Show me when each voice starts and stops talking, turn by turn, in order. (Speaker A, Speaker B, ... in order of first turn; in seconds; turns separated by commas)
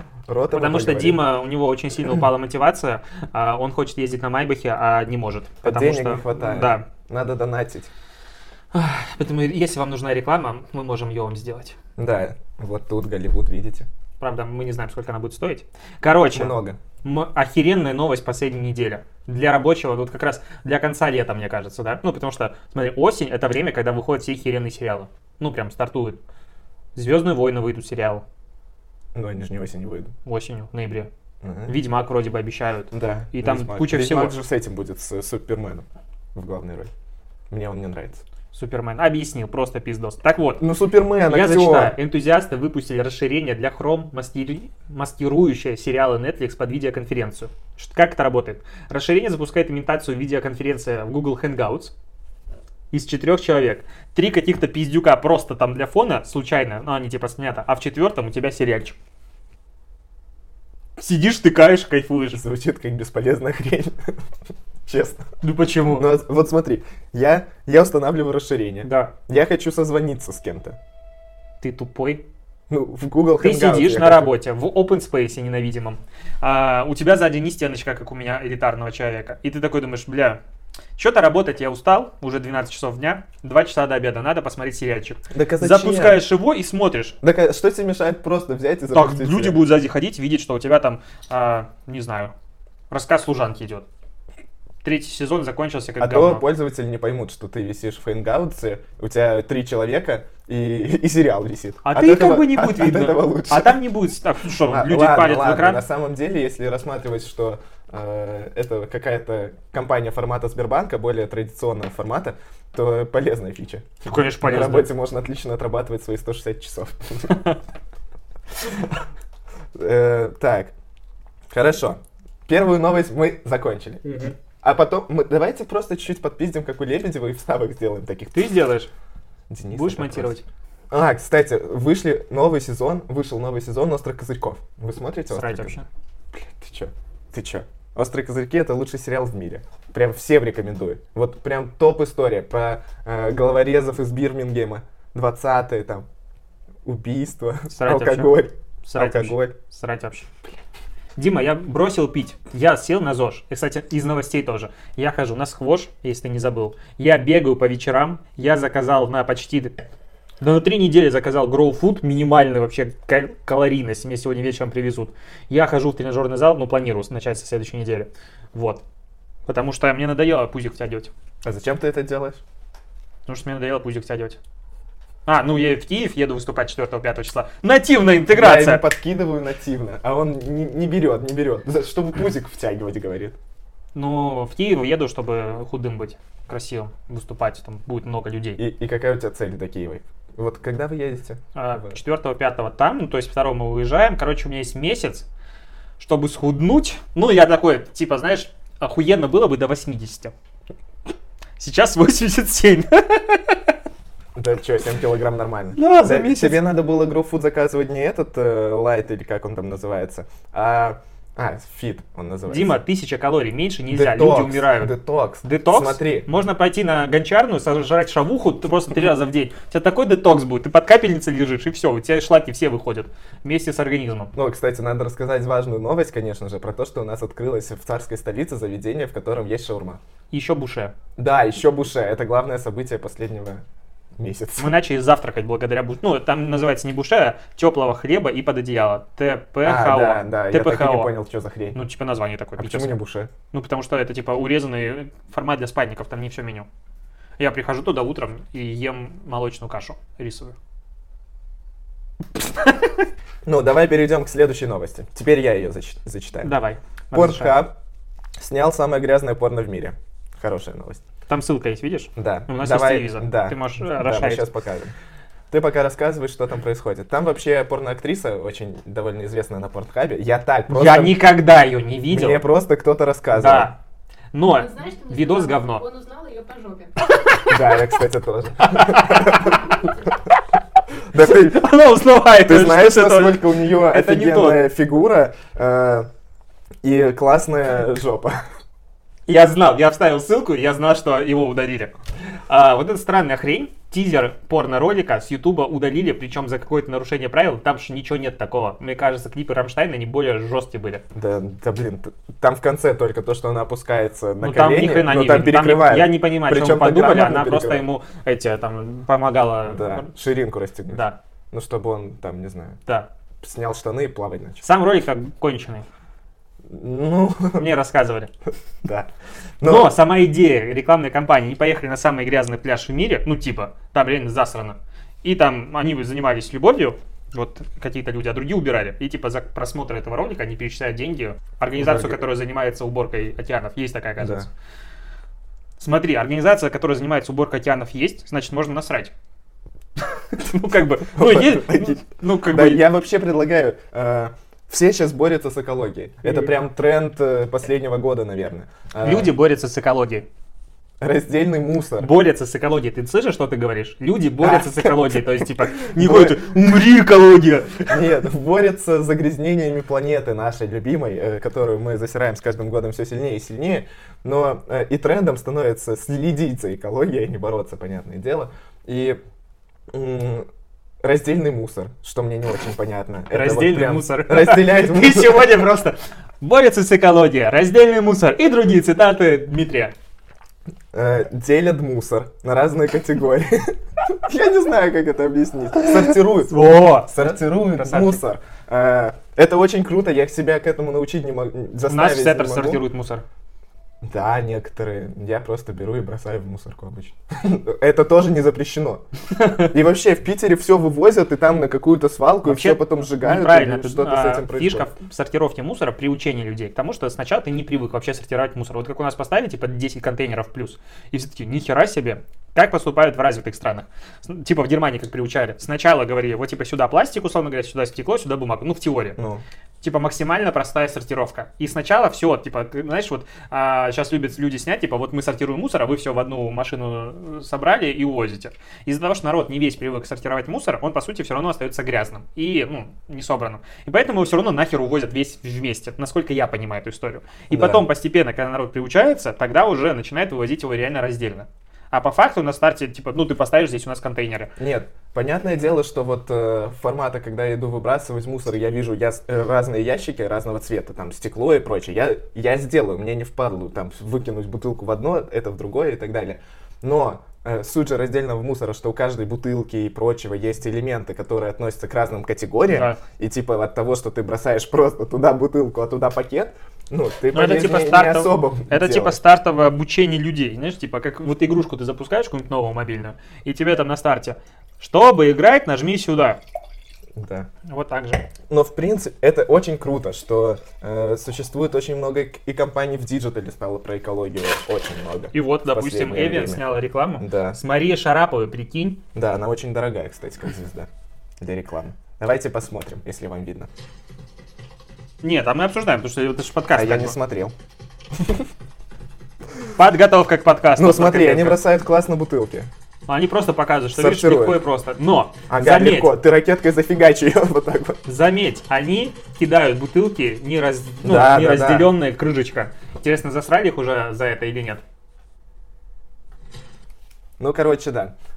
Speaker A: 0.3-1.2, Speaker B: 0.5-6.8, Speaker A: 5.6-7.9, Speaker B: 8.7-11.8, Speaker A: 12.0-13.9, Speaker B: 14.2-26.2, Speaker A: 16.3-16.8, Speaker B: 26.9-28.2, Speaker A: 29.1-30.1, Speaker B: 30.2-31.1, Speaker A: 31.4-31.7, Speaker B: 31.7-34.3, Speaker A: 32.9-36.9, Speaker A: 37.5-38.2, Speaker B: 38.5-40.6, Speaker A: 40.6-42.0, Speaker B: 41.3-51.9, Speaker B: 52.9-59.0, Speaker B: 61.0-62.4, Speaker A: 62.3-64.1, Speaker A: 64.9-65.2, Speaker B: 65.4-66.1, Speaker A: 65.9-70.8, Speaker B: 68.8-69.1, Speaker B: 71.6-72.2, Speaker A: 72.7-74.3, Speaker B: 73.4-80.4, Speaker B: 81.0-87.2, Speaker A: 85.3-86.2, Speaker A: 87.2-89.6, Speaker B: 88.9-92.3, Speaker B: 92.9-93.8, Speaker B: 94.8-96.4, Speaker A: 96.0-103.8, Speaker B: 101.8-105.8, Speaker A: 104.7-117.4, Speaker B: 114.0-114.9, Speaker A: 119.8-120.7, Speaker A: 121.5-124.0, Speaker B: 124.0-124.3, Speaker A: 124.6-128.4, Speaker B: 128.3-128.9, Speaker A: 129.5-130.3, Speaker B: 129.7-130.4, Speaker A: 130.9-135.8, Speaker B: 135.3-135.8, Speaker A: 136.3-146.1, Speaker A: 146.8-149.6, Speaker B: 147.7-150.3, Speaker B: 151.2-159.8, Speaker B: 160.4-168.8, Speaker B: 169.4-171.1, Speaker A: 171.4-172.4, Speaker B: 173.2-174.4, Speaker B: 175.2-178.8, Speaker A: 178.3-183.3, Speaker B: 183.9-188.6, Speaker A: 188.6-191.9, Speaker B: 191.5-195.2, Speaker B: 196.0-200.3, Speaker B: 201.6-203.7, Speaker A: 204.3-212.8, Speaker B: 205.8-206.6, Speaker B: 212.5-224.3, Speaker A: 213.9-216.3, Speaker A: 224.3-230.0, Speaker B: 230.3-230.9, Speaker A: 231.2-233.6, Speaker A: 234.2-234.7, Speaker B: 234.6-241.1, Speaker A: 239.6-241.8, Speaker B: 241.7-242.9, Speaker A: 242.6-243.3, Speaker B: 243.5-246.7, Speaker B: 247.4-250.5, Speaker B: 252.4-253.0, Speaker A: 253.4-256.6, Speaker B: 256.4-257.6, Speaker A: 257.1-257.7, Speaker A: 258.4-261.0, Speaker B: 261.3-264.5, Speaker A: 262.1-264.9, Speaker A: 265.5-271.2, Speaker B: 270.7-272.4, Speaker A: 272.1-273.7, Speaker B: 273.3-273.7, Speaker B: 274.3-275.8, Speaker C: 274.5-277.1, Speaker A: 277.4-279.7, Speaker B: 278.7-279.6, Speaker A: 281.1-281.7, Speaker B: 281.2-284.7, Speaker A: 282.4-286.1, Speaker A: 286.8-288.4, Speaker B: 289.3-291.9, Speaker B: 292.5-301.0, Speaker A: 301.1-307.8, Speaker B: 304.4-310.1, Speaker A: 309.7-312.8, Speaker B: 310.9-311.2, Speaker A: 313.4-314.6, Speaker B: 314.6-315.8, Speaker A: 316.7-317.7, Speaker B: 317.6-318.3, Speaker A: 318.8-319.1, Speaker A: 319.6-319.9, Speaker B: 319.6-334.5, Speaker A: 331.8-332.2, Speaker A: 334.2-334.5, Speaker B: 335.8-339.1, Speaker B: 340.1-342.8, Speaker A: 341.1-349.3, Speaker B: 349.0-350.2, Speaker A: 351.0-352.1, Speaker B: 352.0-358.0, Speaker A: 354.4-355.1, Speaker A: 355.7-356.5, Speaker A: 357.9-369.2, Speaker A: 369.9-370.5, Speaker A: 371.0-375.5, Speaker B: 373.3-379.9, Speaker A: 380.9-392.8, Speaker B: 385.8-387.2, Speaker B: 387.8-388.2, Speaker B: 391.9-393.2, Speaker A: 394.0-404.9, Speaker B: 402.4-419.2, Speaker A: 419.2-419.4, Speaker B: 419.8-444.5, Speaker A: 437.5-437.8, Speaker A: 444.6-469.2, Speaker B: 462.7-463.0, Speaker B: 467.3-476.4, Speaker A: 477.2-477.5, Speaker B: 477.7-478.3, Speaker A: 478.5-486.6, Speaker B: 485.3-489.0, Speaker A: 487.2-487.6, Speaker A: 489.1-490.9, Speaker A: 491.4-493.7, Speaker B: 495.2-497.1, Speaker A: 496.7-497.5, Speaker B: 499.8-501.6, Speaker A: 500.8-502.7, Speaker B: 503.1-506.1, Speaker A: 503.9-504.6, Speaker A: 505.5-508.0, Speaker B: 508.1-514.8, Speaker A: 511.0-511.9, Speaker A: 517.4-518.1